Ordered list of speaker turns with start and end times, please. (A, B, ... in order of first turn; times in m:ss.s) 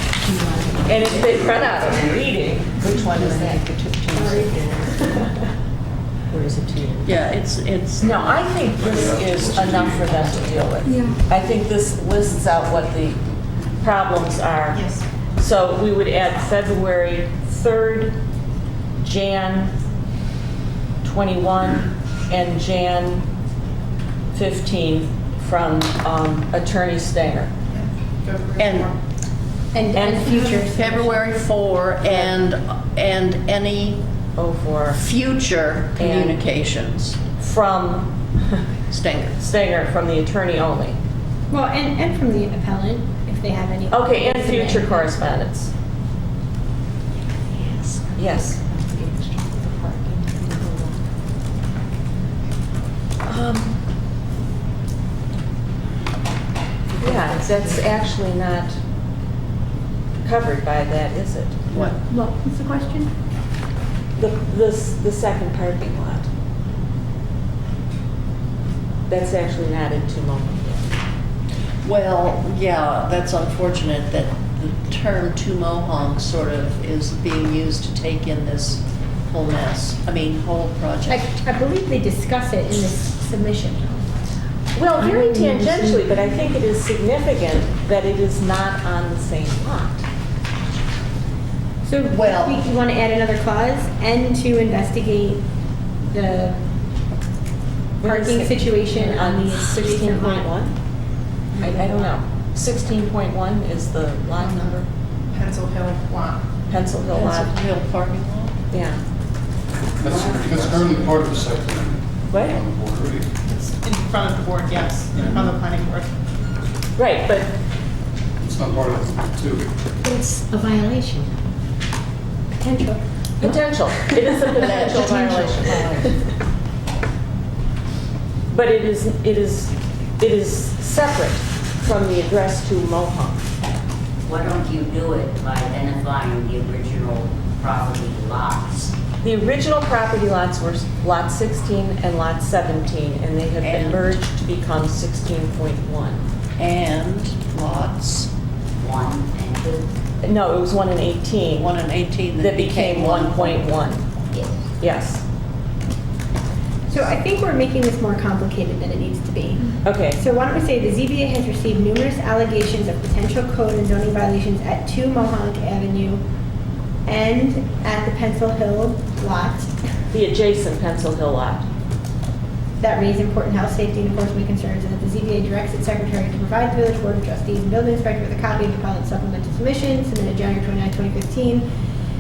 0:00.2-0:01.7 A
0:00.8-0:03.7 B
0:02.8-0:05.1 A
0:04.1-0:05.2 C
0:06.3-0:07.1 B
0:07.0-0:08.4 D
0:08.0-0:13.2 B
0:08.8-0:10.4 E
0:13.8-0:18.2 B
0:14.7-0:15.0 F
0:19.0-0:19.7 B
0:21.0-0:23.2 B
0:24.3-0:27.5 B
0:27.7-0:29.0 F
0:28.6-0:28.9 D
0:29.7-0:31.2 C
0:29.9-0:30.6 B
0:30.4-0:34.0 D
0:32.0-0:32.4 B
0:34.4-0:35.0 B
0:34.9-0:37.2 D
0:36.0-0:36.4 B
0:37.4-0:38.6 B
0:38.9-0:39.5 D
0:39.4-0:41.0 B
0:41.5-0:45.1 C
0:43.9-0:45.7 B
0:47.5-0:51.0 A
0:48.1-0:48.6 B
0:53.2-0:53.8 B
0:57.0-0:58.0 A
0:57.0-0:58.8 B
1:00.2-1:02.0 B
1:02.2-1:03.0 C
1:04.2-1:06.3 B
1:09.1-1:10.9 B
1:11.8-1:21.2 D
1:21.1-1:24.2 C
1:24.7-1:30.0 B
1:25.0-1:26.1 A
1:31.8-1:35.5 C
1:32.1-1:32.6 D
1:36.0-1:36.6 C
1:38.0-1:40.7 B
1:38.0-1:40.5 C
1:41.6-1:41.8 C
1:41.6-1:44.9 B
1:44.4-1:46.4 F
1:46.7-1:47.6 B
1:47.0-1:48.6 D
1:48.7-1:49.0 B
1:50.0-1:53.3 E
1:50.1-1:50.5 G
1:52.3-1:52.6 B
1:53.4-1:56.1 F
1:57.0-1:57.6 B
1:58.4-1:59.7 E
2:00.0-2:01.3 A
2:02.5-2:03.0 C
2:03.4-2:06.2 B
2:04.5-2:05.9 D
2:04.6-2:06.1 A
2:08.5-2:13.4 B
2:14.2-2:18.9 G
2:19.2-2:26.2 B
2:23.6-2:24.2 D
2:26.6-2:28.3 D
2:28.8-2:29.8 G
2:30.2-2:31.8 B
2:31.6-2:33.7 D
2:32.4-2:34.0 B
2:34.8-2:35.2 B
2:36.9-2:46.2 C
2:39.8-2:40.2 B
2:47.0-2:49.7 C
2:50.1-2:51.6 B
2:52.8-3:01.7 C